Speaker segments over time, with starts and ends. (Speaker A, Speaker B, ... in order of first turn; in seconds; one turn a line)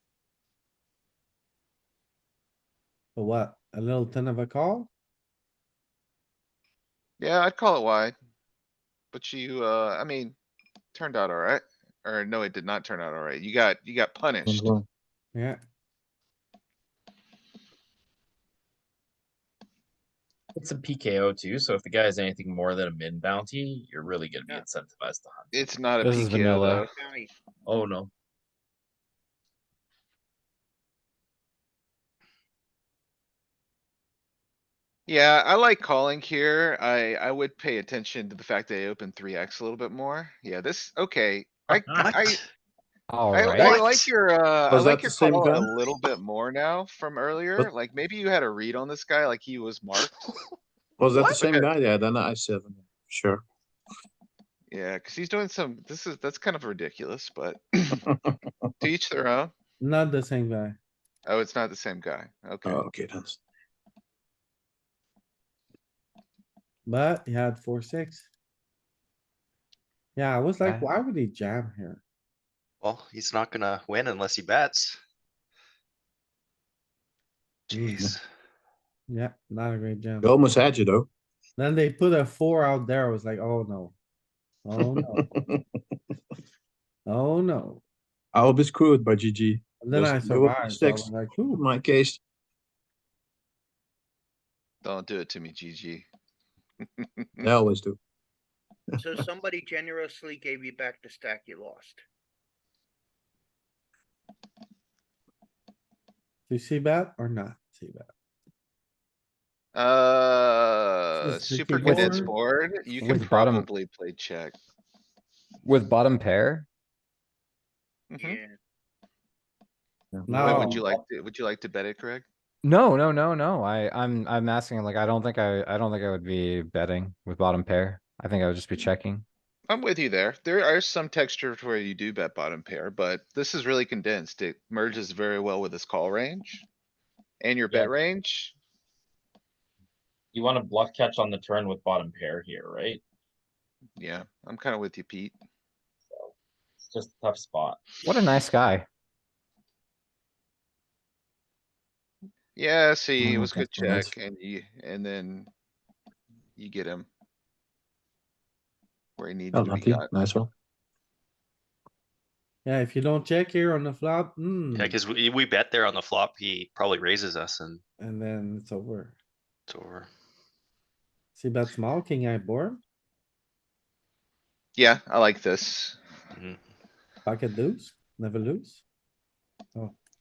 Speaker A: 3.1-4.9
Speaker B: 7.2-8.1
Speaker B: 9.1-10.3
Speaker B: 10.9-14.7
Speaker C: 14.4-14.8
Speaker A: 15.3-15.6
Speaker D: 20.6-25.6
Speaker B: 25.5-26.9
Speaker E: 26.0-26.9
Speaker F: 26.9-27.3
Speaker D: 27.6-28.1
Speaker B: 35.1-42.4
Speaker G: 41.7-42.4
Speaker E: 43.1-43.7
Speaker B: 43.3-50.2
Speaker G: 43.6-44.1
Speaker C: 44.7-45.7
Speaker C: 51.0-53.4
Speaker B: 51.1-51.7
Speaker B: 54.7-58.0
Speaker C: 58.2-58.6
Speaker B: 58.8-59.5
Speaker A: 59.8-60.8
Speaker B: 61.2-62.8
Speaker C: 62.6-63.4
Speaker A: 66.8-68.3
Speaker A: 70.2-72.0
Speaker E: 70.6-71.0
Speaker G: 72.8-75.0
Speaker G: 77.7-78.2
Speaker A: 77.7-78.0
Speaker A: 79.1-80.3
Speaker C: 80.2-81.1
Speaker A: 81.6-83.9
Speaker A: 84.7-85.2
Speaker C: 84.8-85.6
Speaker A: 87.0-87.8
Speaker C: 88.3-92.2
Speaker A: 89.8-91.6
Speaker B: 94.8-96.0
Speaker B: 97.0-97.5
Speaker C: 97.4-98.0
Speaker F: 99.0-102.0
Speaker A: 106.5-108.1
Speaker B: 109.7-114.6
Speaker A: 111.1-112.3
Speaker E: 111.8-112.2
Speaker E: 113.0-113.7
Speaker E: 115.6-116.7
Speaker B: 118.1-118.4
Speaker F: 118.1-118.6
Speaker C: 120.1-120.7
Speaker A: 120.2-120.8
Speaker B: 120.3-122.2
Speaker E: 122.6-129.2
Speaker B: 129.7-136.7
Speaker B: 137.4-138.5
Speaker D: 140.3-143.0
Speaker B: 144.0-145.3
Speaker D: 146.1-147.9
Speaker E: 148.0-148.8
Speaker B: 152.6-155.5
Speaker C: 153.2-154.1
Speaker B: 156.6-157.1
Speaker B: 159.2-160.1
Speaker C: 159.5-160.5
Speaker A: 162.6-165.0
Speaker G: 164.7-167.8
Speaker A: 168.0-169.1
Speaker G: 169.7-170.1
Speaker A: 171.3-172.8
Speaker B: 174.8-176.0
Speaker G: 176.3-176.6
Speaker A: 177.2-178.8